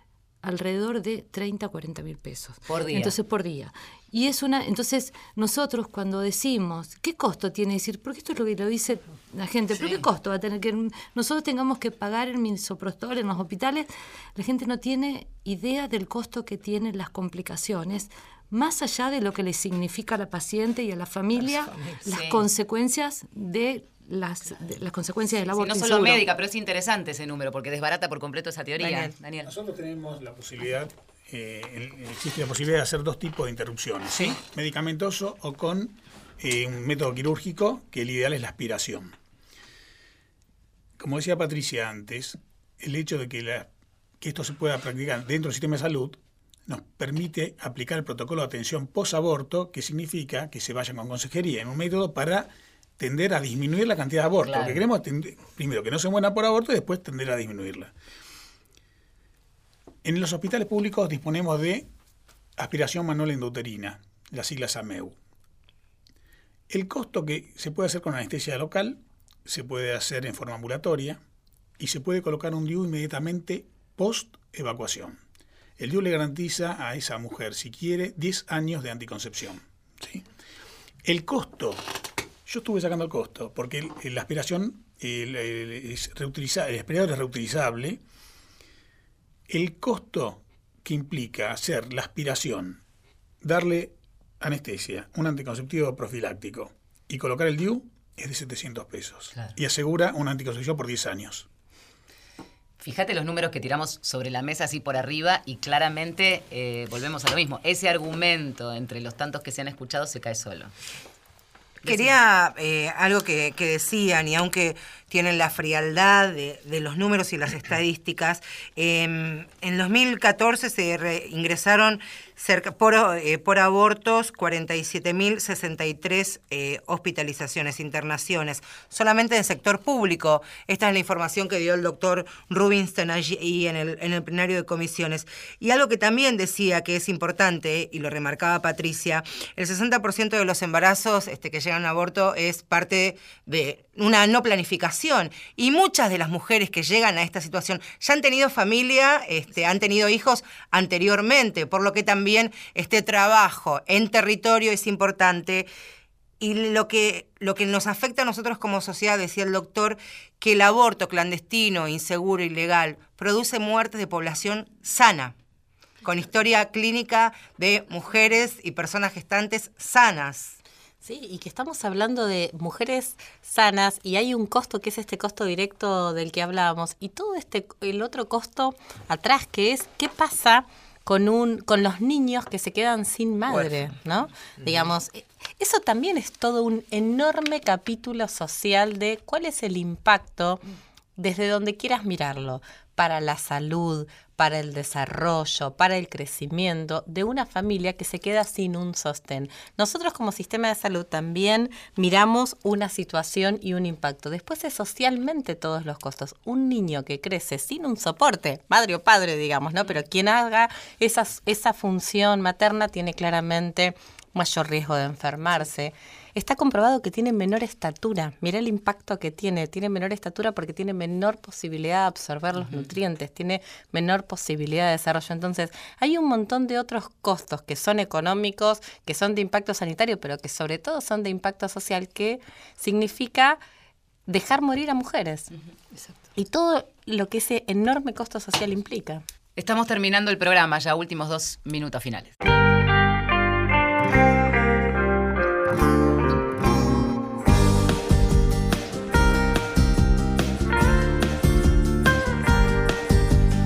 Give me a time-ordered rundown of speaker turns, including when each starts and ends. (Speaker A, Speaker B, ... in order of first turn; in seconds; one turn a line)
Speaker A: 0.4-26.2
Speaker B: 2.7-3.1
Speaker B: 9.7-10.1
Speaker B: 22.0-22.4
Speaker B: 25.5-29.5
Speaker C: 29.4-39.1
Speaker C: 41.0-43.7
Speaker C: 44.2-57.9
Speaker B: 54.4-54.8
Speaker C: 60.0-61.9
Speaker C: 62.6-65.2
Speaker C: 66.7-71.2
Speaker C: 71.8-75.2
Speaker C: 75.8-80.2
Speaker C: 81.0-81.8
Speaker C: 82.5-88.0
Speaker C: 89.5-92.8
Speaker C: 93.4-101.5
Speaker B: 102.8-110.7
Speaker B: 111.8-112.2
Speaker D: 111.8-155.7
Speaker D: 156.4-165.3
Speaker D: 166.0-170.6
Speaker E: 171.0-190.6
Speaker E: 191.2-233.6
Speaker B: 222.6-222.8
Speaker E: 234.3-235.5
Speaker E: 236.3-239.2
Speaker B: 239.6-242.3